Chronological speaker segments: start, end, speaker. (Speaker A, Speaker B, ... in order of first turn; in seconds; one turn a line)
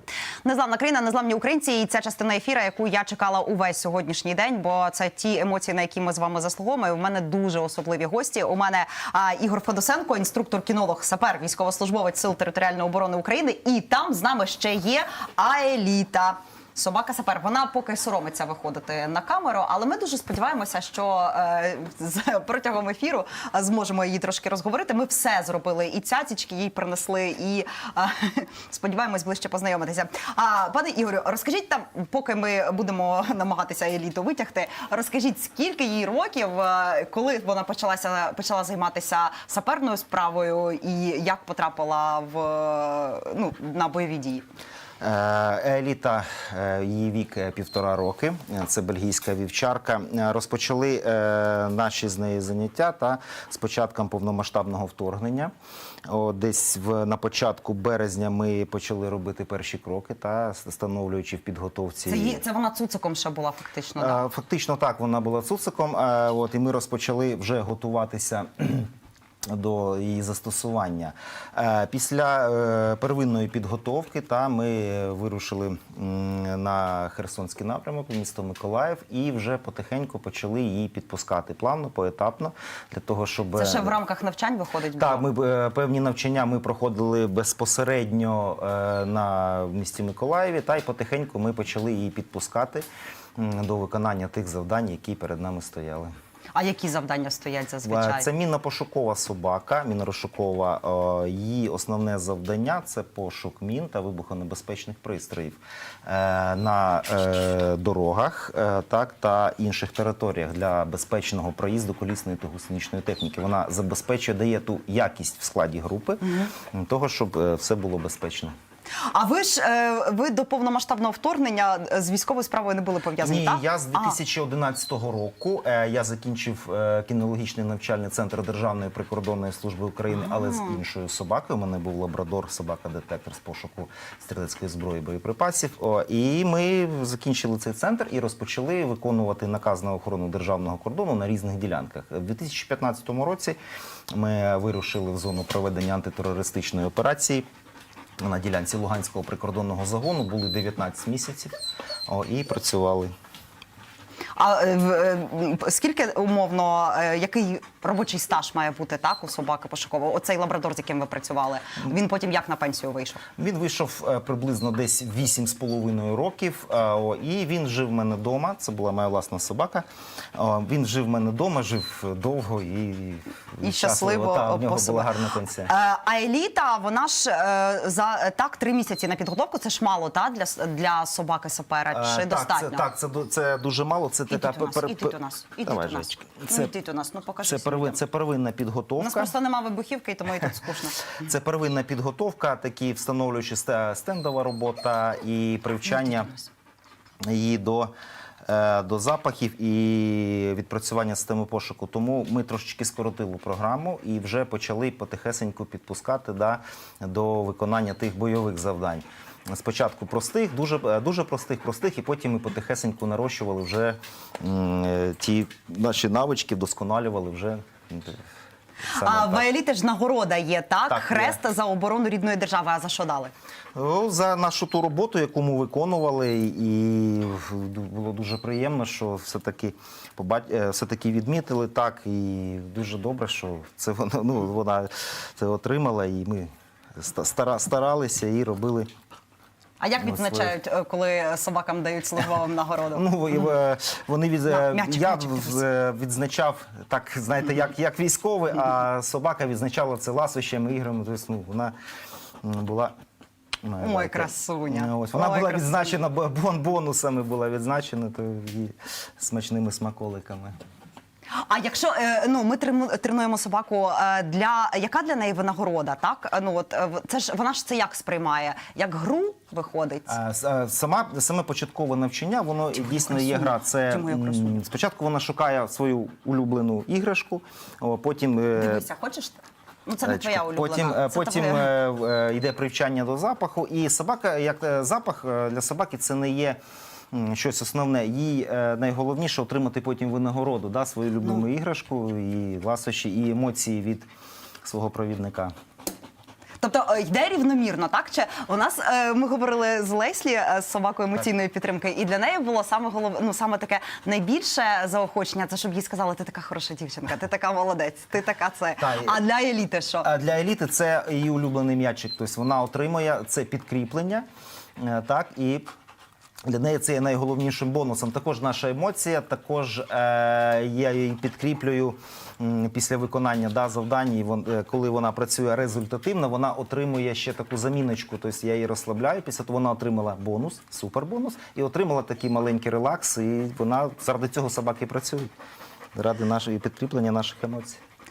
Speaker A: 0.4-44.4
Speaker B: 45.0-55.5
Speaker B: 56.1-62.4
Speaker A: 62.1-64.2
Speaker B: 64.0-68.9
Speaker B: 69.5-84.0
Speaker A: 83.5-85.2
Speaker B: 85.0-96.1
Speaker A: 96.5-98.3
Speaker B: 97.8-118.5
Speaker A: 116.2-116.5
Speaker A: 119.1-124.2
Speaker B: 123.2-143.6
Speaker A: 130.1-130.8
Speaker B: 144.1-147.4
Speaker B: 148.2-151.5
Speaker B: 152.1-153.1
Speaker A: 154.3-163.2
Speaker B: 163.4-175.7
Speaker A: 173.6-175.1
Speaker A: 175.7-182.9
Speaker B: 181.9-186.7
Speaker A: 184.3-188.0
Speaker B: 187.4-189.3
Speaker A: 189.0-191.2
Speaker B: 191.2-196.3
Speaker A: 195.8-196.5
Speaker B: 197.2-197.9
Speaker B: 198.5-218.2
Speaker B: 218.9-219.5
Speaker A: 218.9-223.3
Speaker B: 220.9-221.4
Speaker B: 223.7-238.9
Speaker A: 239.8-243.4
Speaker B: 240.0-240.6
Speaker B: 242.9-251.7
Speaker A: 244.5-245.6
Speaker B: 252.4-252.9
Speaker B: 253.6-260.5
Speaker A: 253.8-255.9
Speaker A: 261.4-270.2
Speaker B: 270.1-278.9
Speaker A: 272.8-274.6
Speaker A: 278.6-281.7
Speaker B: 280.0-286.6
Speaker B: 287.1-294.1
Speaker B: 294.6-295.5
Speaker A: 296.6-310.1
Speaker B: 308.8-309.2
Speaker B: 310.0-314.2
Speaker B: 314.8-315.7
Speaker B: 316.4-335.3
Speaker B: 335.9-337.8